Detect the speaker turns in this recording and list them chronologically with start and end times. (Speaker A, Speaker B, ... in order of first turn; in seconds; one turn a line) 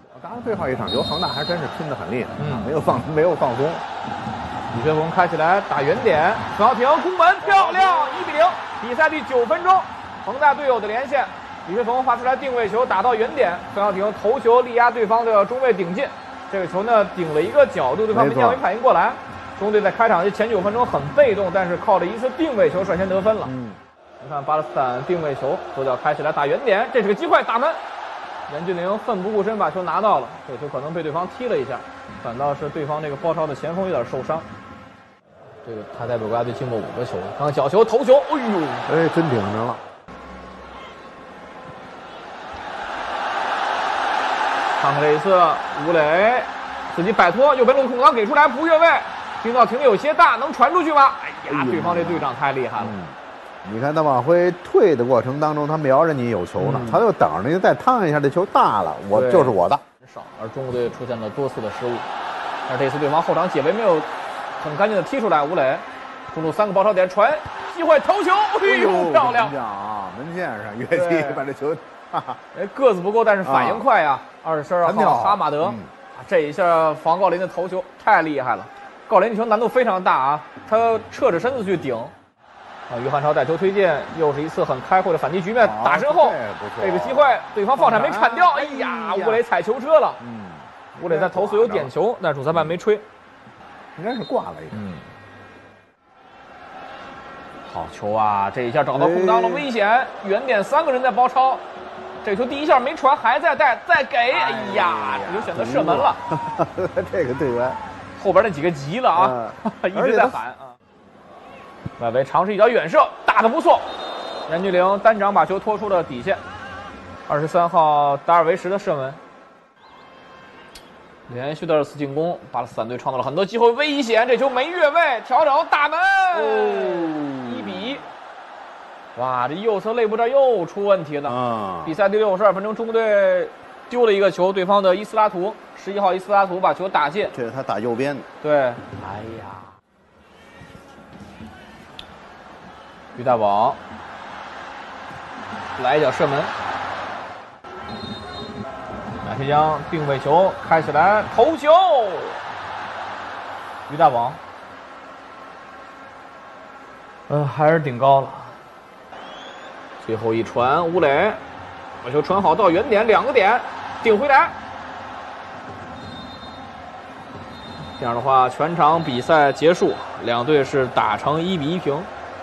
Speaker A: 0.1-3.8
Speaker B: 2.4-2.7
Speaker B: 4.7-23.5
Speaker A: 7.4-8.4
Speaker A: 18.1-18.6
Speaker A: 23.4-23.8
Speaker B: 24.2-27.8
Speaker B: 28.5-34.5
Speaker B: 35.6-38.9
Speaker A: 38.9-39.8
Speaker B: 44.8-53.0
Speaker A: 51.5-59.8
Speaker B: 56.6-57.0
Speaker B: 59.1-62.1
Speaker B: 62.7-69.5
Speaker A: 68.6-72.4
Speaker B: 70.9-71.4
Speaker B: 72.5-82.1
Speaker A: 73.4-73.8
Speaker A: 74.8-75.9
Speaker B: 82.9-90.2
Speaker A: 85.6-89.4
Speaker A: 90.2-91.9
Speaker B: 91.0-93.0
Speaker A: 92.5-92.8
Speaker A: 94.0-94.8
Speaker B: 94.7-95.1
Speaker B: 97.7-101.6
Speaker A: 98.9-99.7
Speaker B: 102.2-106.2
Speaker A: 104.3-107.8
Speaker B: 108.2-110.8
Speaker A: 109.1-110.4
Speaker B: 112.0-113.9
Speaker B: 114.5-116.4
Speaker B: 117.3-119.2
Speaker B: 121.3-128.0
Speaker A: 126.3-128.0
Speaker B: 129.1-137.3
Speaker A: 131.2-132.0
Speaker A: 137.3-138.2
Speaker B: 138.4-139.7
Speaker B: 143.1-143.8
Speaker B: 145.8-146.5
Speaker B: 149.2-152.4
Speaker B: 153.9-154.4
Speaker B: 157.3-158.6
Speaker B: 160.0-161.4
Speaker B: 162.0-164.5
Speaker B: 168.0-172.1